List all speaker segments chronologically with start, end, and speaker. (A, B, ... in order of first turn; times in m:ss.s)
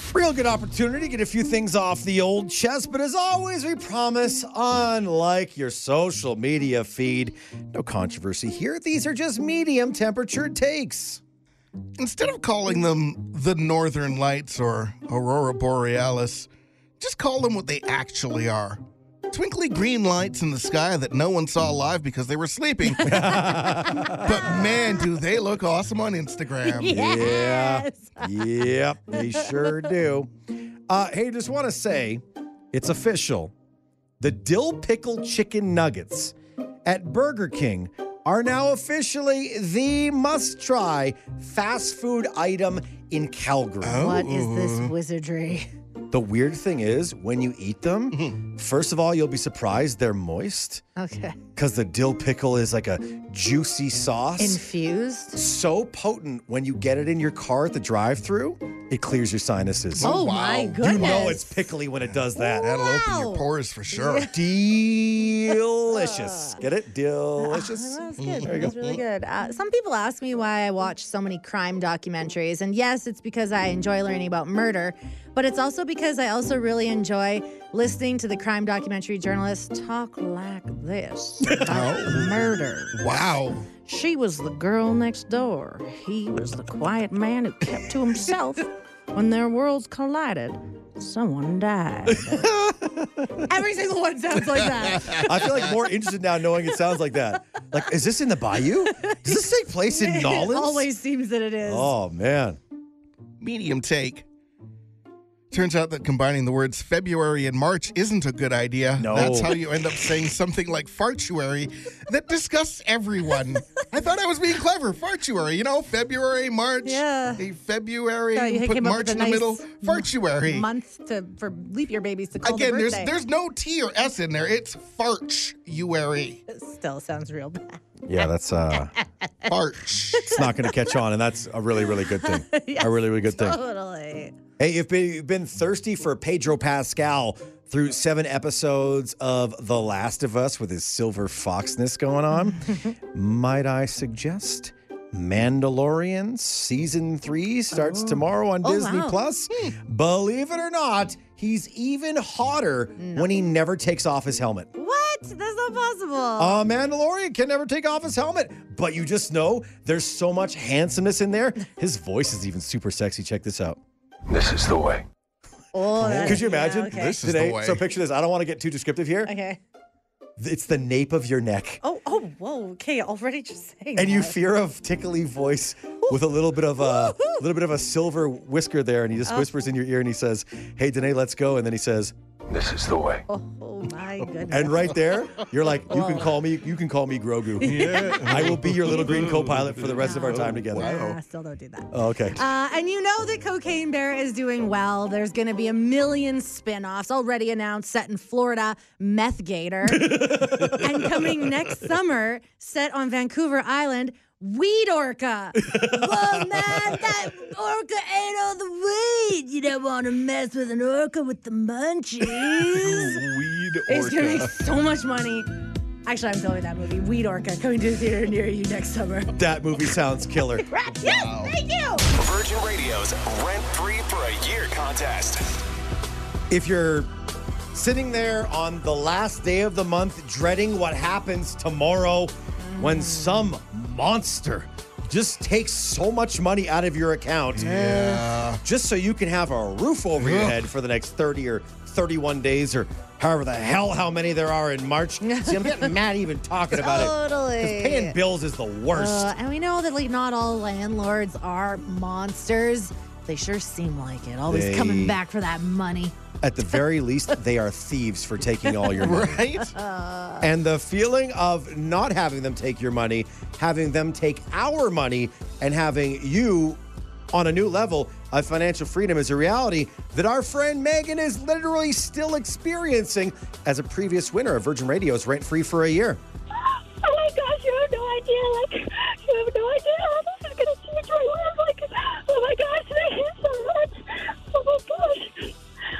0:00.1-0:11.2 A
0:12.0-0:16.5 B
0:17.0-0:23.5 B
0:23.0-0:23.4 C
0:23.0-0:24.3 A
0:23.9-0:24.9 C
0:24.2-0:27.0 B
0:26.7-0:28.2 C
0:26.8-0:30.3 A
0:29.4-0:29.9 C
0:30.9-0:32.2 A
0:32.7-0:33.5 A
0:34.2-0:36.3 A
0:36.8-0:44.1 A
0:43.8-0:44.9 B
0:43.9-0:45.7 C
0:46.1-0:50.8 A
0:48.1-0:48.4 B
0:51.0-0:51.4 C
0:51.6-0:54.6 A
0:54.4-0:55.4 C
0:55.3-1:00.1 A
1:00.0-1:01.4 B
1:00.0-1:01.5 C
1:00.8-1:02.7 A
1:02.1-1:04.3 B
1:02.4-1:04.3 C
1:04.3-1:08.7 A
1:05.5-1:06.6 C
1:07.4-1:23.0 C
1:08.2-1:09.0 B
1:21.7-1:22.4 B
1:22.9-1:23.7 B
1:23.8-1:32.5 C
1:33.5-1:35.4 C
1:34.5-1:35.5 B
1:35.2-1:40.9 A
1:39.0-1:41.9 C
1:41.6-1:42.6 A
1:43.4-1:44.2 B
1:45.5-2:00.7 B
1:49.0-1:49.6 A
1:56.8-1:57.4 C
1:58.3-2:03.1 C
2:02.4-2:06.4 B
2:06.5-2:09.3 C
2:08.0-2:08.9 A
2:09.5-2:10.3 B
2:10.2-2:11.0 C
2:10.2-2:13.6 A
2:12.2-2:14.3 C
2:14.6-2:34.7 A
2:22.3-2:22.9 C
2:27.7-2:29.2 C
2:33.0-2:33.4 C
2:34.8-2:36.6 C
2:36.4-2:43.8 A
2:44.3-2:45.0 D
2:45.7-2:47.2 C
2:46.0-2:47.8 B
2:46.0-2:49.3 A
2:49.2-2:49.6 C
2:50.4-2:51.8 A
2:51.8-2:54.4 C
2:54.0-3:02.1 A
2:56.8-2:57.4 C
3:02.5-3:03.2 D
3:03.3-3:05.1 C
3:04.5-3:10.9 A
3:05.9-3:06.4 C
3:07.6-3:09.3 C
3:07.6-3:11.2 B
3:10.0-3:33.2 C
3:11.9-3:12.4 A
3:19.9-3:21.5 A
3:25.6-3:27.0 A
3:32.8-3:34.4 B
3:33.7-3:34.4 A
3:33.9-3:35.5 C
3:36.0-3:39.3 C
3:39.3-3:40.7 A
3:40.6-3:42.0 C
3:41.0-3:41.6 B
3:42.1-3:45.4 D
3:46.5-3:47.1 A
3:47.7-3:58.1 A
3:52.6-3:53.5 C
3:57.5-3:58.6 B
3:58.6-4:09.3 A
4:00.2-4:00.6 B
4:05.2-4:05.9 C
4:06.7-4:08.2 C
4:08.9-4:16.2 C
4:14.5-4:15.2 A
4:16.4-4:19.4 A
4:18.7-4:20.4 C
4:19.0-4:19.8 B
4:20.4-4:26.8 A
4:27.3-4:36.2 A
4:36.6-4:45.5 E